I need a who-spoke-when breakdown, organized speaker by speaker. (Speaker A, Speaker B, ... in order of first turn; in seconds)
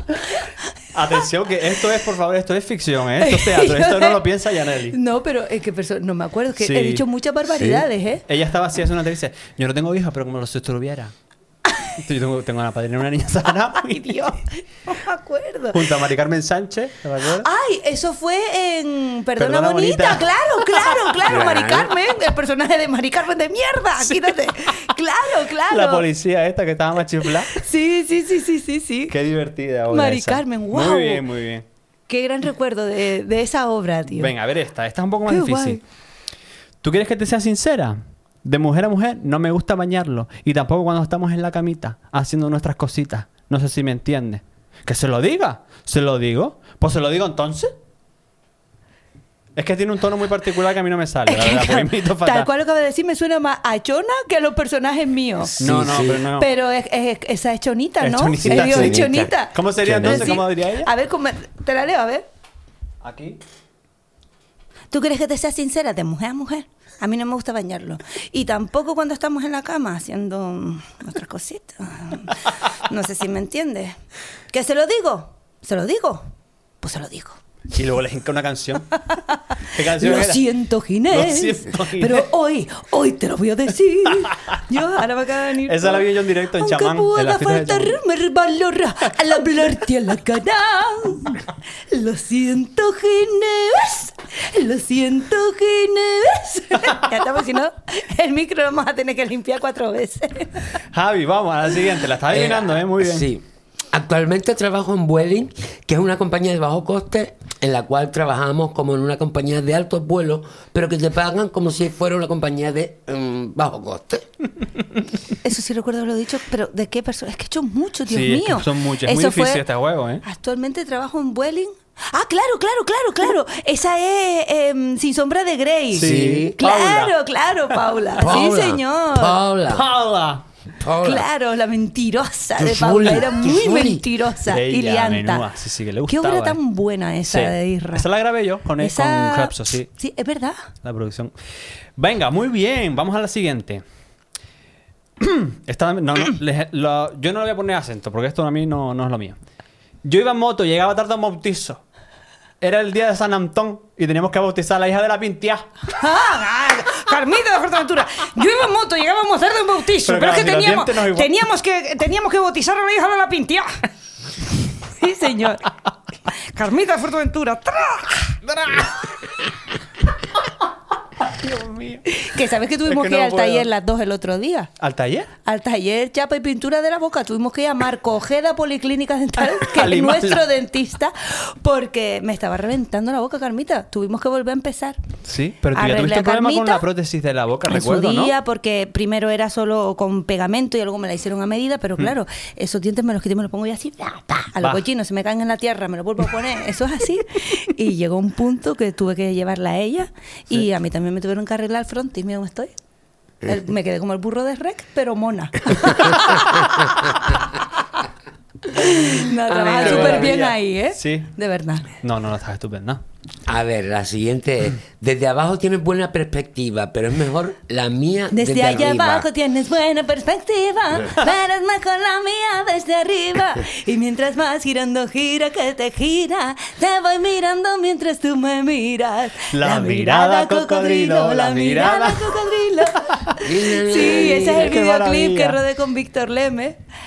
Speaker A: 0.9-5.0, 6.6-7.0, 8.3-11.1, 11.9-14.3, 15.7-17.5, 19.4-21.1, 24.1-24.5, 25.7-27.6, 29.1-31.6, 34.2-35.8, 36.8-47.7, 49.5-52.5, 55.6-56.5, 58.0-60.9, 63.0-63.4, 77.7-79.0, 79.7-80.5, 81.1-82.3, 84.2-84.6, 85.7-88.0, 100.9-103.3, 118.1-120.2, 125.9-127.1, 129.7-130.4, 134.5-136.6, 137.3-139.9, 140.8-141.3, 142.0-143.8, 145.2-149.4, 150.0-151.8, 152.6-155.7, 160.0-161.4, 168.5-169.0, 171.2-172.0, 172.9-173.7, 174.8-175.3, 179.5-180.4, 185.2-188.3, 209.7-211.3, 212.0-213.0, 229.5-233.3, 234.0-235.6
Speaker B: 3.2-4.2, 4.9-8.2, 13.8-15.8, 17.4-26.1, 27.4-29.1, 29.9-31.2, 32.1-34.3, 35.2-35.8, 51.3-55.5, 56.3-62.2, 64.9-74.0, 74.5-76.3, 76.8-77.4, 79.0-100.7, 115.4-119.6, 120.2-129.4, 131.0-135.4, 136.1-138.1, 138.8-140.6, 155.9-163.7, 164.6-165.7, 166.3-168.4, 172.1-174.7, 175.4-185.0, 185.7-186.8, 187.7-202.7, 203.4-207.5, 208.7-211.9, 218.3-236.8
Speaker C: 7.6-7.8, 21.2-21.9, 55.5-56.3, 58.4-60.4, 102.3-114.3, 126.0-126.6, 128.2-129.8, 130.8-131.3, 132.6-134.0, 209.5-210.4, 213.4-219.3, 233.4-234.8